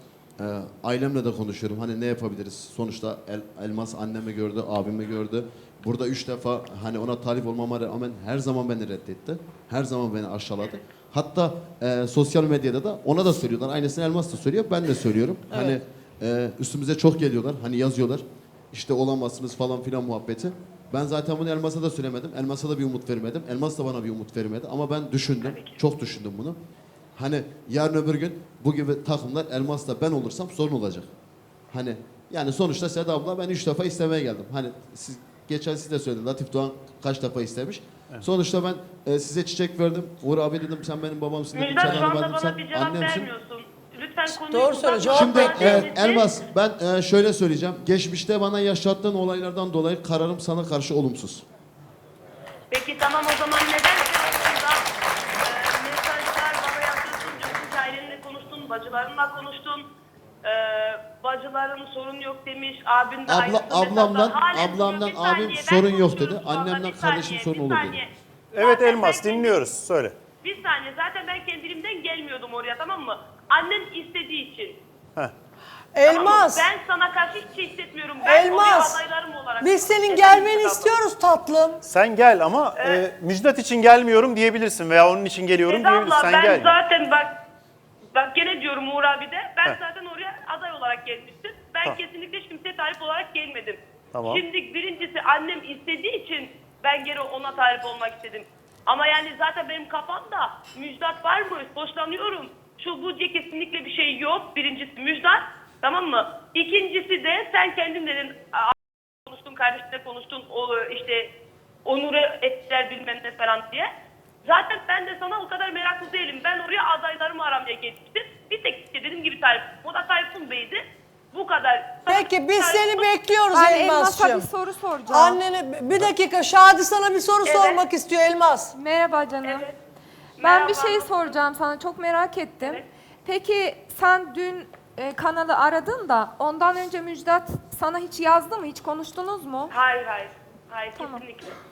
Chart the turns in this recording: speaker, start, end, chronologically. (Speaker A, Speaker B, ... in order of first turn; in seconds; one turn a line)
Speaker A: 0.4-26.6
Speaker B: 25.4-25.8
Speaker A: 27.2-31.1
Speaker A: 31.7-43.3
Speaker B: 41.5-46.3
Speaker C: 44.4-45.9
Speaker A: 45.1-51.4
Speaker B: 52.7-54.8
Speaker B: 55.4-59.9
Speaker B: 60.4-69.6
Speaker A: 63.3-68.0
Speaker D: 68.5-70.1
Speaker B: 70.4-74.8
Speaker C: 75.9-76.7
Speaker B: 76.0-80.9
Speaker C: 78.2-79.0
Speaker C: 79.6-81.8
Speaker D: 81.8-86.8
Speaker B: 82.8-83.0
Speaker B: 85.7-87.3
Speaker B: 88.1-111.3
Speaker D: 94.1-94.4
Speaker B: 111.8-113.9
Speaker B: 114.4-123.0
Speaker C: 122.1-124.5
Speaker E: 123.5-125.4
Speaker C: 125.1-128.8
Speaker B: 127.4-127.9
Speaker E: 128.7-129.7
Speaker B: 129.4-129.7
Speaker B: 130.4-131.4
Speaker E: 130.4-139.7
Speaker B: 139.7-141.6
Speaker E: 140.9-141.2